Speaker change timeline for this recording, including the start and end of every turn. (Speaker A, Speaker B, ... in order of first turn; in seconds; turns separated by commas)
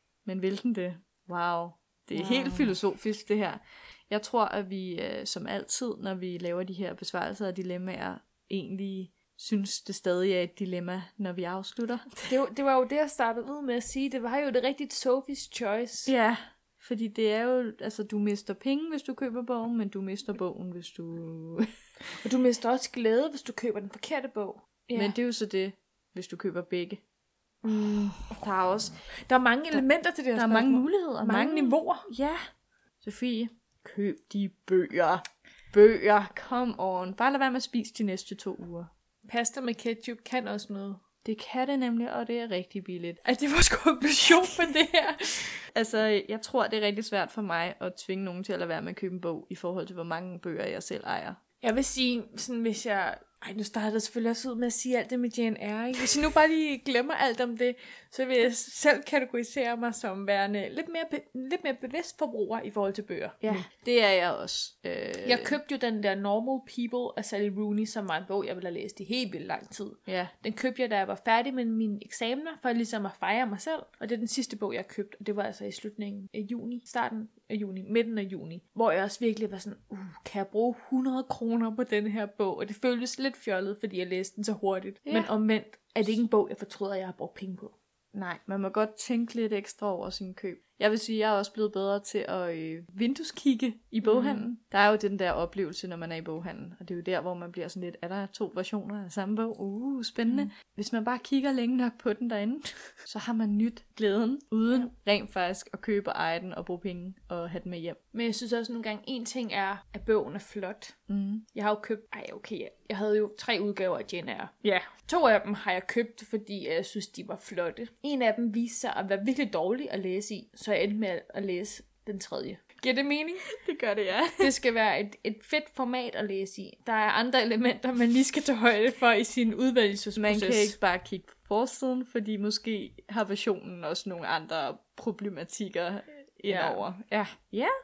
Speaker A: 0.2-12.4, Speaker B: 2.1-2.7, Speaker B: 12.3-16.1, Speaker A: 16.1-21.7, Speaker B: 22.1-25.1, Speaker A: 24.9-27.0, Speaker B: 27.6-28.4, Speaker A: 27.7-28.9, Speaker B: 29.1-32.1, Speaker A: 30.3-32.4, Speaker A: 33.0-38.9, Speaker B: 39.2-41.0, Speaker A: 41.2-43.2, Speaker B: 43.2-45.6, Speaker A: 45.7-51.4, Speaker B: 51.6-63.7, Speaker A: 63.4-65.6, Speaker B: 65.2-87.7, Speaker A: 70.1-70.3, Speaker A: 85.0-85.3, Speaker A: 88.1-108.0, Speaker B: 94.0-94.5, Speaker B: 100.3-100.5, Speaker B: 108.1-111.0, Speaker A: 111.1-111.4, Speaker B: 111.5-123.5, Speaker A: 114.6-114.9, Speaker A: 123.5-124.5, Speaker B: 124.4-130.8, Speaker A: 130.2-137.7, Speaker B: 136.5-136.8